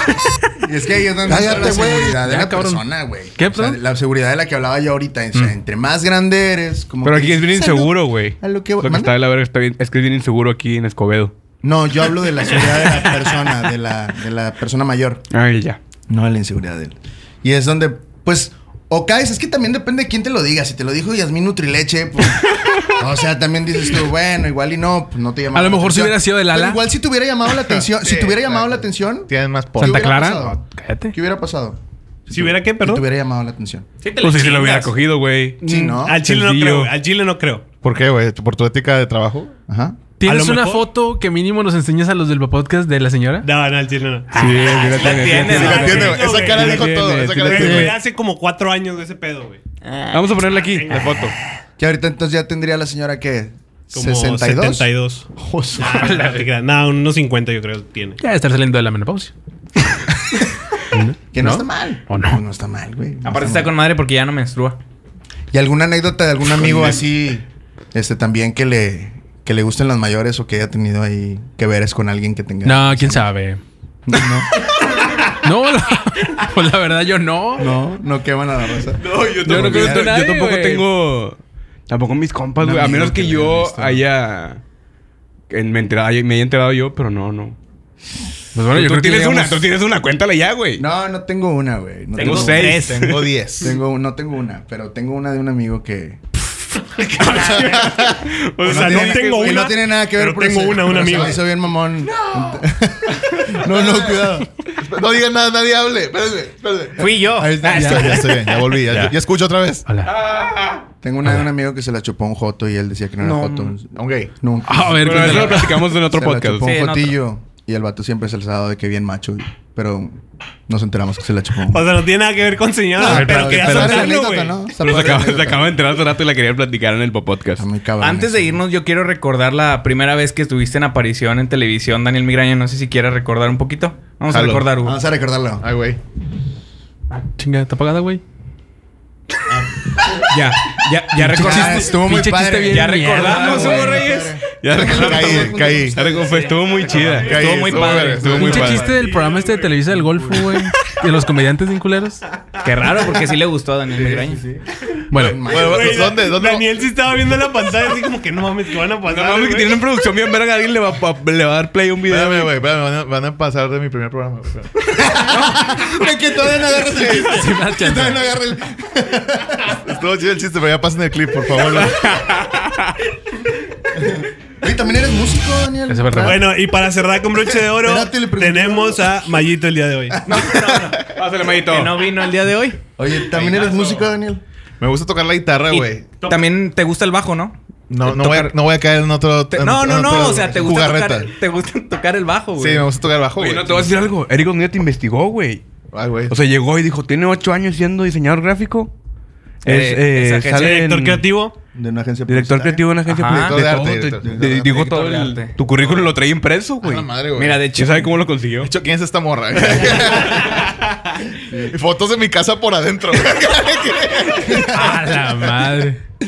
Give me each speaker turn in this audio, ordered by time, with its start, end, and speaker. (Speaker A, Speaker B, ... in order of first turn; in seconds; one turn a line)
Speaker A: 0.5-9.1
Speaker B: 1.3-2.8
Speaker B: 3.3-3.8
Speaker C: 7.0-11.3
Speaker A: 11.6-15.2
Speaker C: 15.3-15.8
Speaker A: 16.1-31.8
Speaker B: 25.5-26.8
Speaker D: 27.9-30.3
Speaker B: 29.8-31.1
Speaker E: 32.3-33.0
Speaker A: 32.3-33.8
Speaker F: 34.0-34.9
Speaker C: 34.2-36.9
Speaker E: 35.6-37.6
Speaker A: 35.6-36.2
Speaker D: 37.8-39.5
Speaker A: 39.7-40.0
Speaker B: 40.2-43.5
Speaker E: 40.2-40.9
Speaker E: 43.4-49.6
Speaker C: 44.3-47.9
Speaker B: 44.3-44.8
Speaker F: 44.6-46.2
Speaker D: 45.2-48.0
Speaker F: 49.8-50.5
Speaker C: 50.1-51.3
Speaker E: 50.6-51.3
Speaker A: 51.8-56.2
Speaker E: 53.9-58.2
Speaker B: 55.9-56.4
Speaker B: 58.2-59.3
Speaker B: 60.9-62.4
Speaker A: 61.3-63.7
Speaker F: 63.2-64.8
Speaker A: 65.5-73.3
Speaker B: 72.6-73.6
Speaker A: 74.0-74.5
Speaker B: 75.3-77.8
Speaker A: 77.6-80.1
Speaker C: 79.0-84.6
Speaker B: 79.4-80.8
Speaker B: 82.6-84.0
Speaker C: 85.5-87.6
Speaker B: 88.5-89.6
Speaker C: 88.7-90.8
Speaker A: 90.8-92.9
Speaker F: 92.2-93.1
Speaker C: 92.2-93.3
Speaker D: 92.7-93.8
Speaker A: 93.6-96.2
Speaker C: 97.2-99.7
Speaker F: 97.2-97.7
Speaker D: 97.3-98.3
Speaker E: 98.6-101.4
Speaker A: 98.6-104.5
Speaker D: 101.0-101.3
Speaker D: 103.7-104.2
Speaker D: 104.8-109.9
Speaker F: 107.0-109.1
Speaker A: 107.3-108.5
Speaker B: 109.9-110.1
Speaker C: 110.1-110.8
Speaker A: 111.0-121.9
Speaker F: 113.2-113.7
Speaker D: 113.9-114.3
Speaker B: 114.7-115.8
Speaker C: 115.0-116.7
Speaker F: 116.6-117.2
Speaker E: 121.7-124.6
Speaker A: 123.0-125.7
Speaker B: 123.0-124.1
Speaker C: 124.7-127.7
Speaker A: 127.6-128.6
Speaker F: 128.0-135.0
Speaker D: 134.3-134.7
Speaker A: 134.8-135.6
Speaker D: 135.6-136.0
Speaker B: 137.1-138.2
Speaker C: 140.3-141.6
Speaker F: 140.7-141.9
Speaker B: 141.2-144.0
Speaker A: 141.2-146.5
Speaker F: 142.7-144.4
Speaker C: 143.2-144.0
Speaker C: 144.5-148.9
Speaker D: 144.7-146.0
Speaker F: 146.0-148.8
Speaker D: 147.2-148.8
Speaker B: 148.3-152.2
Speaker E: 148.8-149.8
Speaker F: 152.6-154.4
Speaker A: 153.9-156.2
Speaker B: 155.1-155.4
Speaker D: 155.2-156.7
Speaker E: 155.5-159.8
Speaker C: 159.1-162.5
Speaker D: 162.0-165.0
Speaker A: 164.9-169.8
Speaker B: 166.9-168.3
Speaker D: 169.7-172.2
Speaker C: 171.6-173.0
Speaker A: 173.9-176.5
Speaker B: 175.9-176.4
Speaker E: 176.2-180.4
Speaker A: 177.6-179.2
Speaker A: 180.1-180.9
Speaker F: 180.3-182.8
Speaker C: 181.1-182.0
Speaker A: 183.0-184.4
Speaker D: 183.3-183.8
Speaker D: 184.8-186.1
Speaker F: 185.7-188.5
Speaker D: 187.9-191.3
Speaker F: 189.5-192.9
Speaker D: 192.6-193.9
Speaker C: 193.4-195.6
Speaker D: 195.9-196.4
Speaker C: 196.3-198.9
Speaker F: 199.6-200.8
Speaker C: 199.6-201.3
Speaker E: 200.5-201.6
Speaker A: 201.7-202.8
Speaker C: 202.3-207.1
Speaker F: 203.1-203.6
Speaker D: 203.3-204.3
Speaker A: 203.9-204.8
Speaker F: 204.4-205.6
Speaker D: 205.8-206.1
Speaker D: 206.8-207.7
Speaker F: 207.3-208.1
Speaker C: 207.7-208.7
Speaker D: 208.6-210.8
Speaker C: 209.6-210.0
Speaker A: 211.4-211.7
Speaker D: 211.7-215.5
Speaker A: 214.3-215.0
Speaker B: 214.7-216.0